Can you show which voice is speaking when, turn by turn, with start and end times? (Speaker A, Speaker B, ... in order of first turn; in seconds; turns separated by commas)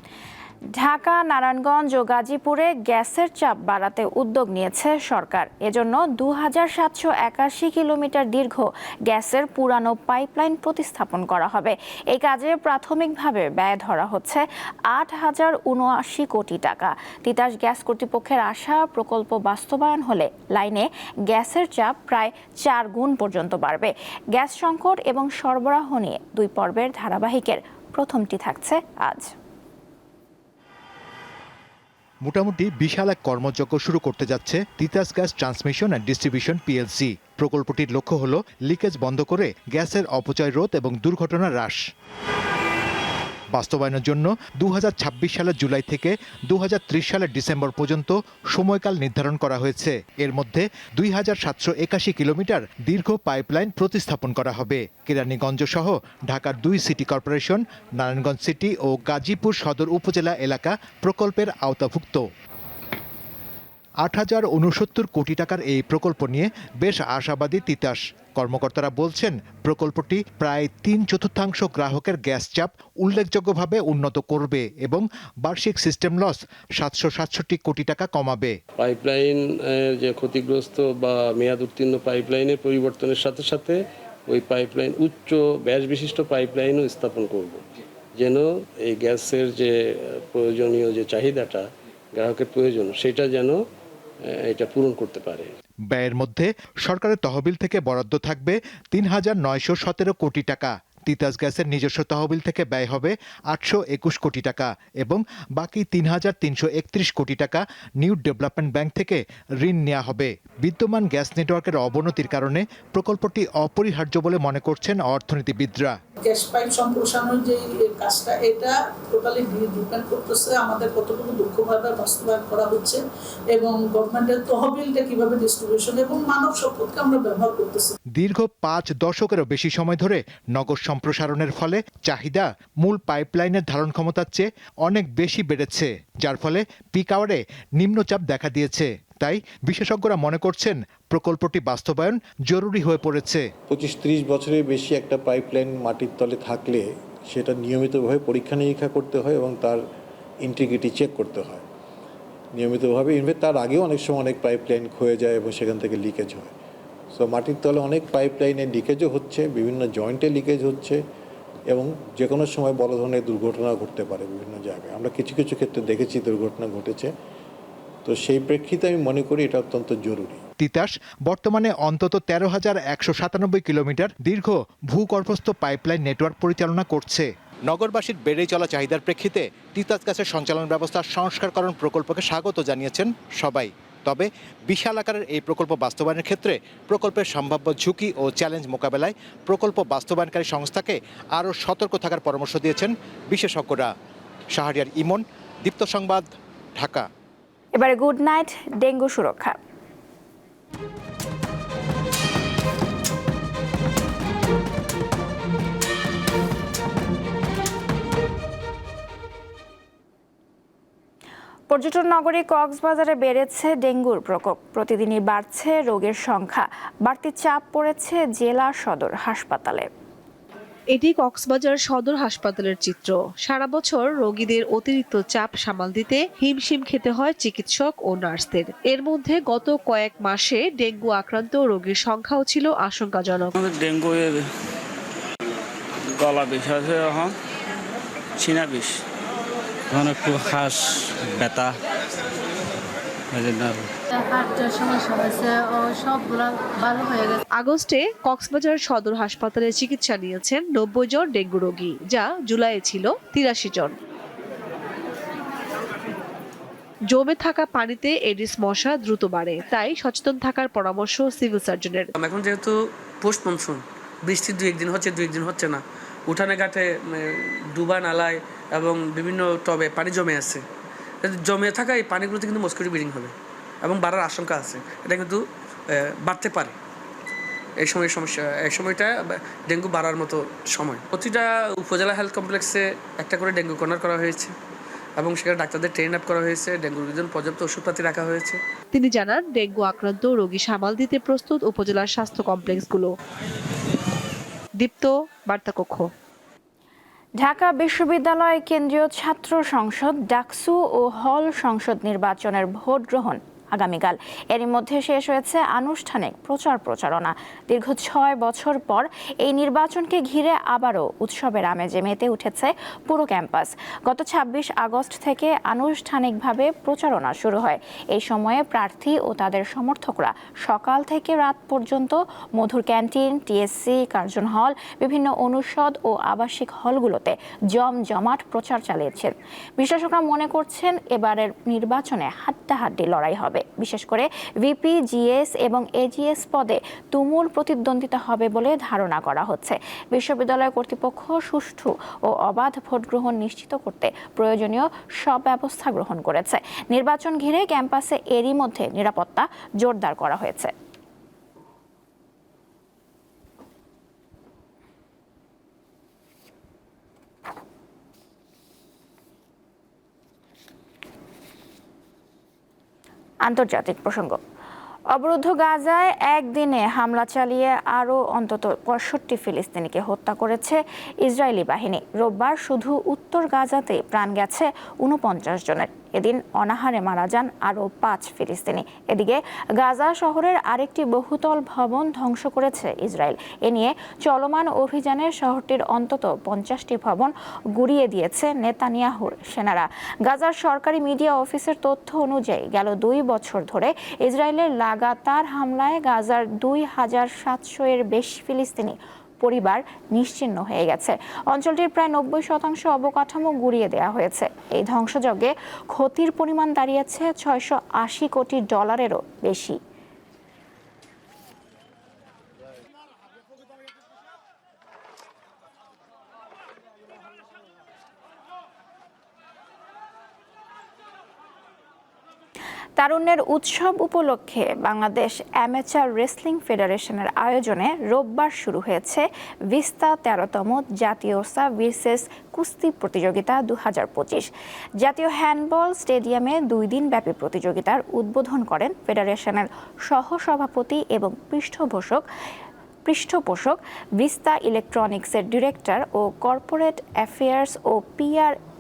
Speaker A: 0.7-29.3, Speaker B: 32.2-41.8, Speaker B: 43.5-62.2, Speaker B: 64.0-78.5, Speaker C: 78.8-87.6, Speaker C: 88.2-93.6, Speaker C: 94.2-95.5, Speaker B: 95.9-115.9, Speaker D: 116.2-123.0, Speaker D: 123.5-127.9, Speaker B: 128.2-143.4, Speaker E: 143.7-149.8, Speaker E: 150.4-151.6, Speaker E: 152.5-156.5, Speaker E: 157.1-161.0, Speaker E: 161.7-167.1, Speaker E: 168.1-170.4, Speaker B: 170.6-193.9, Speaker B: 194.5-197.1, Speaker A: 197.7-199.6, Speaker A: 211.7-219.9, Speaker F: 220.9-233.6, Speaker G: 233.6-234.4, Speaker G: 236.1-237.3, Speaker G: 238.4-238.9, Speaker G: 239.9-241.7, Speaker G: 243.3-243.8, Speaker H: 244.3-247.3, Speaker F: 247.5-253.9, Speaker F: 257.1-262.1, Speaker I: 262.2-270.6, Speaker I: 271.2-276.7, Speaker I: 277.8-284.5, Speaker I: 285.2-288.6, Speaker F: 288.9-293.1, Speaker F: 294.8-296.1, Speaker A: 297.4-350.7, Speaker A: 363.4-364.4, Speaker A: 365.1-409.8, Speaker A: 423.0-434.5, Speaker A: 435.0-442.2, Speaker A: 443.1-448.5